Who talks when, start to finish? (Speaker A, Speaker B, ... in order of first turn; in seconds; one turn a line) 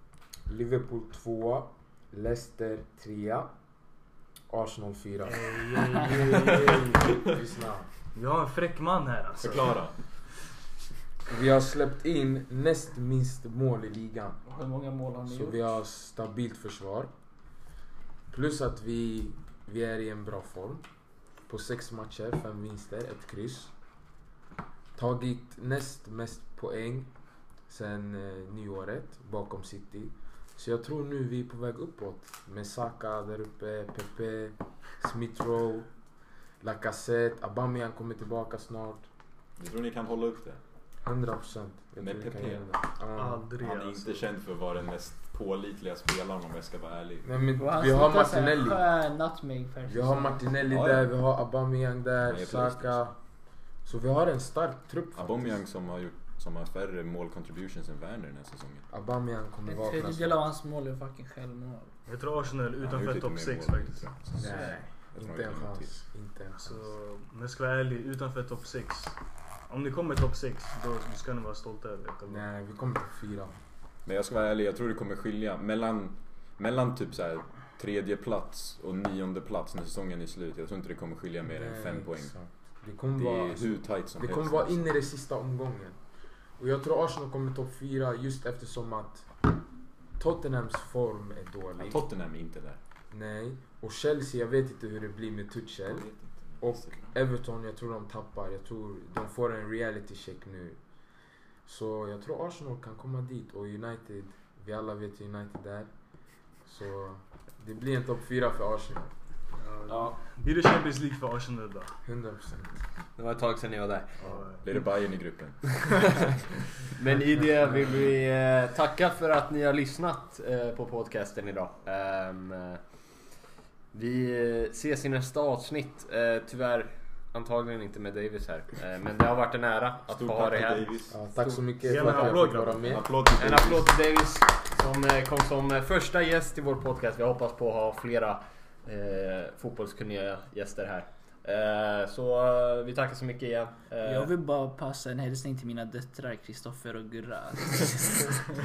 Speaker A: 0.5-3.5
Speaker A: 4.5-5.5
Speaker B: 5.2-7.2
Speaker C: 6.1-6.8
Speaker A: 7.2-7.9
Speaker B: 8.1-9.8
Speaker D: 9.4-9.9
Speaker A: 11.3-14.4
Speaker E: 14.4-15.7
Speaker A: 15.2-17.1
Speaker A: 18.3-20.8
Speaker A: 21.5-23.7
Speaker A: 24.9-27.1
Speaker A: 27.6-35.9
Speaker A: 36.6-39.0
Speaker D: 39.6-40.6
Speaker A: 41.0-43.5
Speaker D: 42.0-42.7
Speaker B: 43.1-44.3
Speaker D: 43.6-47.3
Speaker A: 47.2-48.8
Speaker E: 47.6-50.5
Speaker A: 49.9-53.1
Speaker D: 50.7-51.1
Speaker D: 52.3-53.1
Speaker A: 53.8-55.6
Speaker D: 55.1-58.9
Speaker A: 58.9-60.4
Speaker E: 59.6-61.9
Speaker B: 62.0-64.0
Speaker D: 62.8-65.9
Speaker A: 64.4-66.9
Speaker B: 66.5-72.5
Speaker A: 72.3-73.5
Speaker D: 74.0-82.3
Speaker A: 81.5-86.0
Speaker D: 83.2-84.9
Speaker A: 86.6-89.3
Speaker A: 90.2-92.0
Speaker D: 91.8-92.8
Speaker A: 93.1-100.8
Speaker D: 95.9-97.1
Speaker A: 101.6-105.9
Speaker A: 106.6-109.1
Speaker B: 109.5-112.0
Speaker C: 109.9-110.2
Speaker A: 112.0-112.7
Speaker C: 113.2-114.2
Speaker B: 114.2-114.7
Speaker D: 114.6-115.8
Speaker C: 115.8-122.8
Speaker C: 123.9-131.1
Speaker D: 130.1-131.2
Speaker A: 131.1-133.1
Speaker B: 131.8-132.9
Speaker D: 132.8-133.9
Speaker C: 133.3-144.3
Speaker E: 144.0-148.3